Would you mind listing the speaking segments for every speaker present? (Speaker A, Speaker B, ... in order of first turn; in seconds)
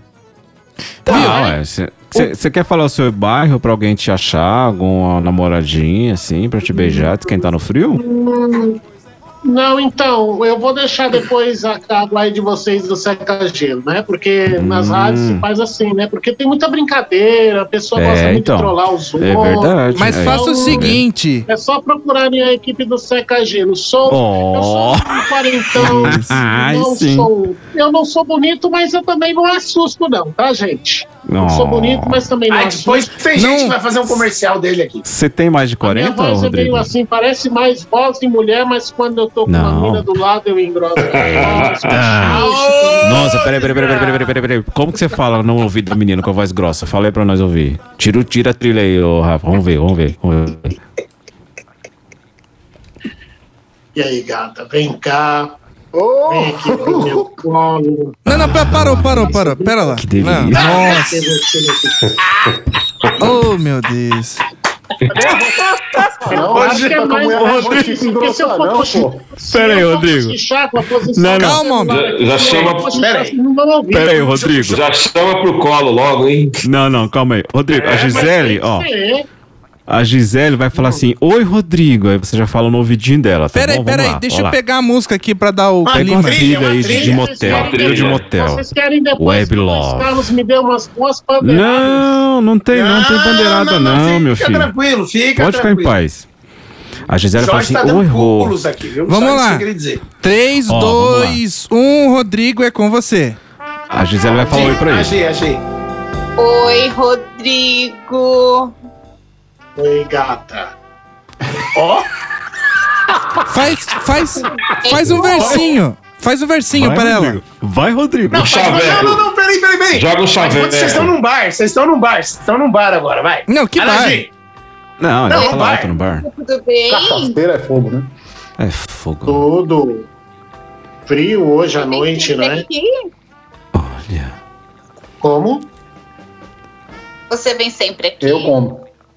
Speaker A: 1.1-8.0, 14.5-15.4, 17.9-21.0, 24.0-25.2, 25.8-27.3, 31.2-32.2, 35.0-36.9, 39.5-40.1, 41.1-42.4, 43.0-50.7, 58.3-59.3, 60.0-60.8, 67.4-67.9, 69.5-70.4, 71.1-71.6, 73.9-74.8, 76.6-78.9, 79.9-84.6, 85.9-88.7, 89.2-90.2, 91.4-94.7, 95.3-96.2, 97.1-98.6, 100.7-101.4, 103.9-105.2, 115.2-115.6, 116.7-118.8, 125.0-126.3, 128.6-129.5, 133.7-134.3
Speaker B: 1.1-1.4, 19.9-21.5, 25.8-26.4, 33.3-33.8, 58.2-61.3, 63.2-64.4, 71.3-72.0, 83.5-86.5, 99.1-99.7, 100.2-103.4, 113.5-117.4, 123.5-124.2
Speaker C: 1.1-1.5, 6.7-7.3, 7.9-8.8, 9.4-33.1, 35.8-43.3, 53.9-55.6, 56.3-58.4, 59.0-60.0, 60.5-62.1, 66.3-74.5, 78.0-79.3, 80.7-81.0, 86.8-92.1, 109.8-110.7, 129.3-130.1, 131.1-132.7, 135.2-135.7
Speaker D: 32.5-35.0, 42.1-44.2, 65.1-67.2, 72.5-73.3, 74.3-74.8, 77.7-78.3, 85.8-87.7, 92.7-95.9, 97.3-100.0, 104.2-105.6, 111.7-112.1, 118.3-124.3, 125.3-126.0
Speaker E: 41.2-41.7, 71.9-72.9, 74.6-76.6, 87.4-88.2, 118.3-119.2, 119.9-121.1
Speaker F: 55.9-57.2, 65.2-65.5, 66.2-69.2, 126.9-128.1, 138.2-138.8
Speaker G: 106.4-108.7, 114.8-115.7, 125.3-127.4, 131.8-133.1, 137.3-138.5